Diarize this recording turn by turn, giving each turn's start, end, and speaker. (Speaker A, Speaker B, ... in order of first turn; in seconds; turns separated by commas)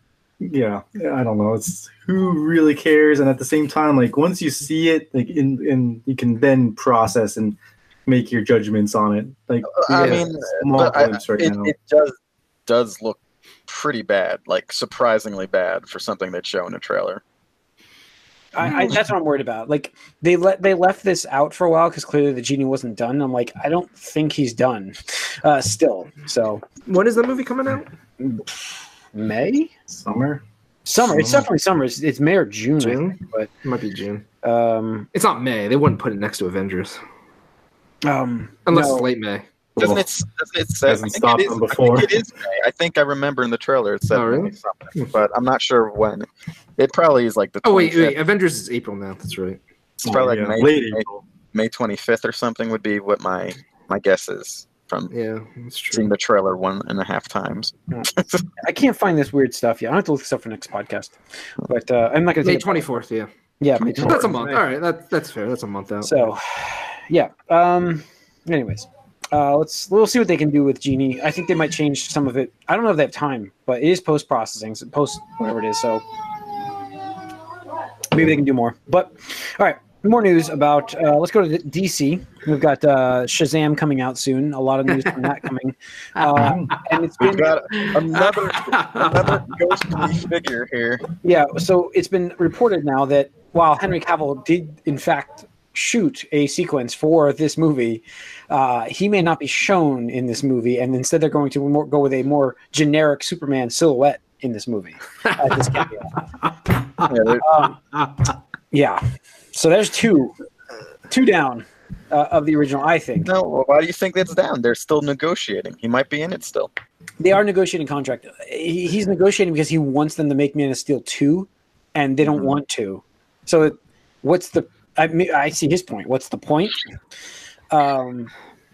Speaker A: 0.4-11.7, Speaker B: 9.7-12.1, Speaker C: 9.9-10.3, Speaker B: 12.7-17.2, Speaker D: 18.5-26.6, Speaker A: 18.6-18.9, Speaker C: 26.9-27.9, Speaker D: 29.1-29.7, Speaker A: 29.9-30.4, Speaker D: 30.9-33.5, Speaker A: 31.0-31.5, Speaker C: 32.8-34.2, Speaker D: 34.4-35.1, Speaker C: 35.1-37.0, Speaker D: 38.0-39.1, Speaker C: 38.7-39.5, Speaker A: 39.8-40.0, Speaker B: 39.8-48.2, Speaker A: 40.9-42.2, Speaker C: 44.1-45.0, Speaker C: 47.6-49.6, Speaker B: 50.0-55.1, Speaker A: 50.0-51.2, Speaker C: 55.1-56.1, Speaker B: 55.9-58.5, Speaker D: 57.9-62.9, Speaker C: 62.4-63.3, Speaker D: 63.6-64.4, Speaker C: 63.9-66.3, Speaker A: 64.0-64.6, Speaker D: 66.0-76.0, Speaker D: 78.1-87.6, Speaker A: 86.3-86.7, Speaker B: 87.2-91.0, Speaker C: 87.8-90.1, Speaker D: 91.2-106.2, Speaker C: 106.4-107.1, Speaker B: 107.0-107.4, Speaker D: 107.4-107.8, Speaker C: 107.9-108.3, Speaker D: 108.7-109.0, Speaker D: 109.5-110.3, Speaker D: 111.1-113.3, Speaker B: 113.2-116.7, Speaker D: 117.2-126.8, Speaker D: 127.7-128.3